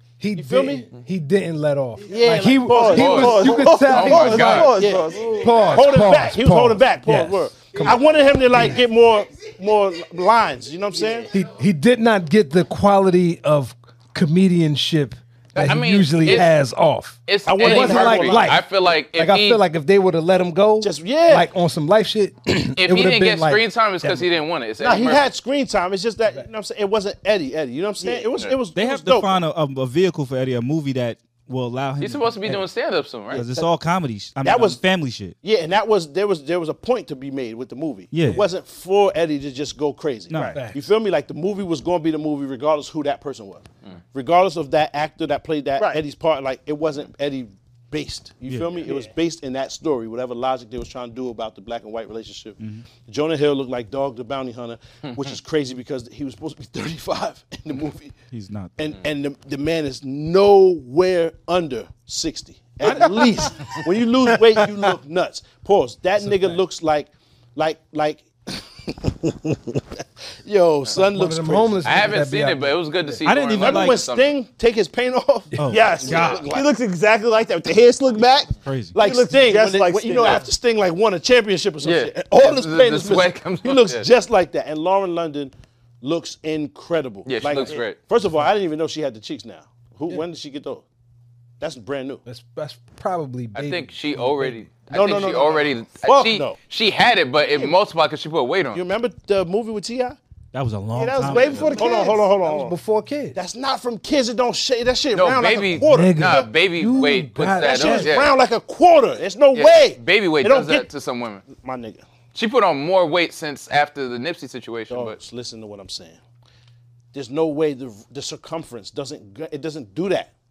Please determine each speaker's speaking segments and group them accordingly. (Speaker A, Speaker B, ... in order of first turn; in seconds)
Speaker A: 0.2-8.8, 11.3-24.4, 40.5-40.9, 71.0-73.2, 75.5-75.8, 92.2-94.7, 101.8-103.3, 105.8-108.2
Speaker B: 0.3-0.9, 2.0-11.3, 17.4-18.6, 20.8-21.5, 24.8-29.4, 34.4-34.8, 35.4-58.1, 58.8-69.8, 70.4-71.8, 73.6-76.7, 78.9-90.8, 91.6-92.2, 94.9-96.6, 97.4-97.7, 98.7-100.2, 101.3-102.8, 103.3-106.5, 107.5-110.9, 111.5-112.0, 114.9-116.2, 117.1-120.3
Speaker C: 2.7-5.9, 28.0-28.3, 48.8-49.1, 75.7-80.5, 100.9-102.3
Speaker D: 2.9-4.8, 15.5-16.5, 17.3-19.6, 22.8-25.2, 32.0-33.4, 71.8-74.3, 81.8-84.0, 87.2-88.0, 93.5-98.8, 105.1-108.3, 109.5-111.5, 112.3-115.2
Speaker E: 28.7-32.7, 33.3-35.3, 38.1-38.4, 40.3-40.6, 52.6-52.8, 58.3-58.7, 73.2-74.0, 75.6-76.4, 78.6-79.0, 100.5-102.0